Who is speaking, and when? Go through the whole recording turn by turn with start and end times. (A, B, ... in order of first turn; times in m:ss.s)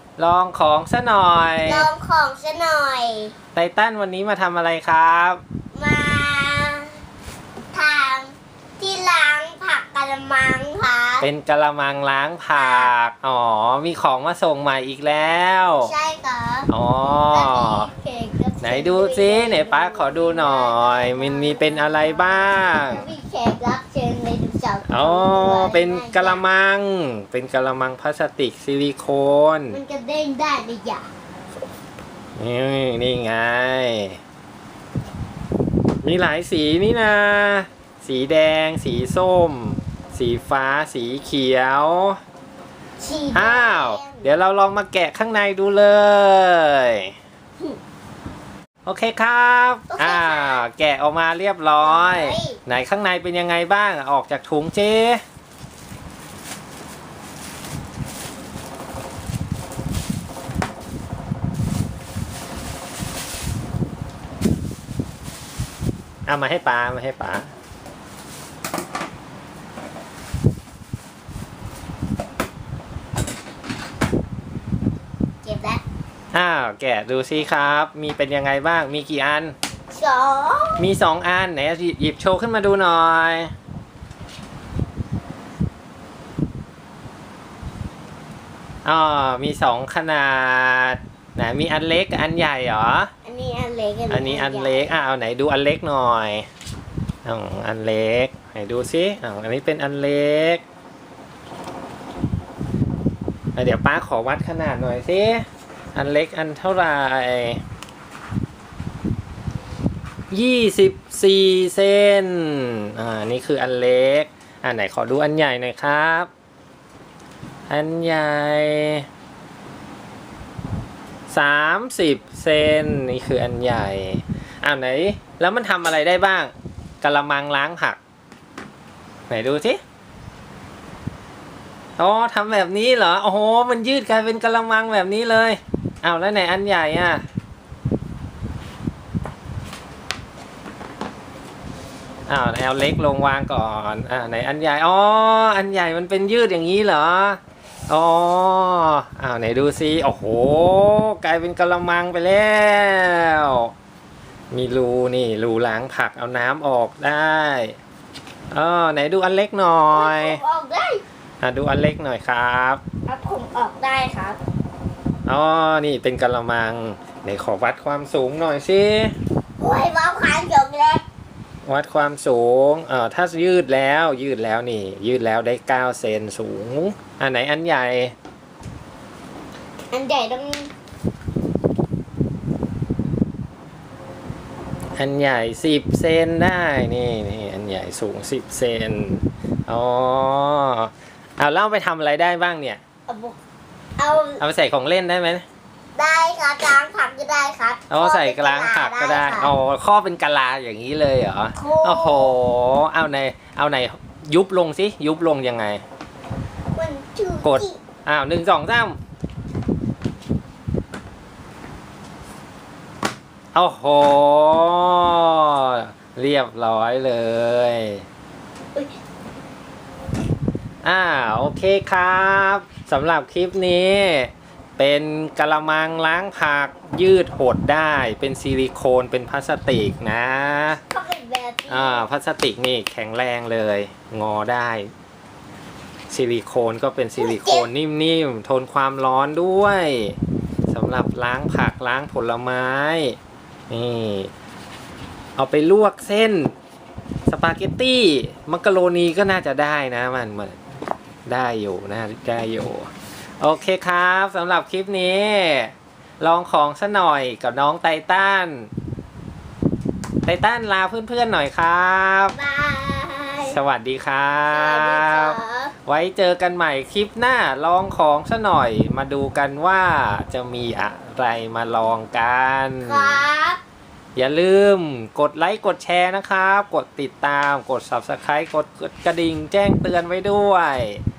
0:00.2-0:01.9 A
0:01.6-0:03.3 B
0:03.5-0:05.4 A
0:05.7-0:06.9 B
0:07.7-0:11.3 B
0:11.2-0:15.9 A
0:12.5-0:12.9 B
0:15.8-0:26.4 B
0:16.7-0:17.9 A
0:18.6-0:23.1 A
0:24.9-0:29.8 A
0:29.7-0:31.0 B
0:32.4-0:34.2 A
0:36.0-0:42.2 A
0:43.0-0:44.3 B
0:43.3-0:47.1 A
0:48.8-0:55.2 A
0:49.9-0:50.6 B
0:51.8-0:52.6 B
1:06.3-1:07.5 A
1:15.4-1:15.8 B
1:16.3-1:19.5 A
1:19.9-1:20.8 B
1:20.8-1:23.5 A
1:28.8-1:33.1 A
1:33.2-1:35.0 B
1:34.1-1:36.4 A
1:37.2-1:40.6 A
1:43.6-1:47.6 A
1:50.3-1:56.3 A
1:57.7-1:59.0 A
2:01.3-2:08.0 A
2:09.3-2:09.8 A
2:12.0-2:17.2 A
2:22.3-2:33.7 A
2:34.5-2:37.8 A
2:38.5-2:40.4 A
2:39.9-2:41.0 B
2:41.4-2:42.8 A
2:43.1-2:44.4 B
2:45.3-2:49.1 A
2:49.6-2:51.0 B
2:51.6-2:58.1 A
2:59.9-3:00.7 B
3:05.0-3:12.8 A
3:13.1-3:13.4 B
3:14.0-3:14.4 B
3:14.4-3:15.4 A
3:16.0-3:19.5 B
3:17.9-3:25.8 A
3:21.5-3:22.3 B
3:26.7-3:27.8 B
3:27.4-3:29.0 A
3:33.5-3:38.0 A
3:40.8-3:50.8 A
3:50.9-3:52.0 B
3:51.7-3:54.9 A
3:56.1-4:00.2 A
3:57.2-3:57.7 B
4:00.7-4:03.2 A
4:03.7-4:04.3 A
4:05.4-4:06.5 A
4:07.3-4:10.6 A
4:11.2-4:12.9 A
4:13.4-4:18.7 A
4:20.2-4:22.3 A
4:22.3-4:23.6 B
4:23.4-4:33.2 A
4:24.5-4:25.7 B
4:32.8-4:33.6 B
4:34.2-4:41.0 A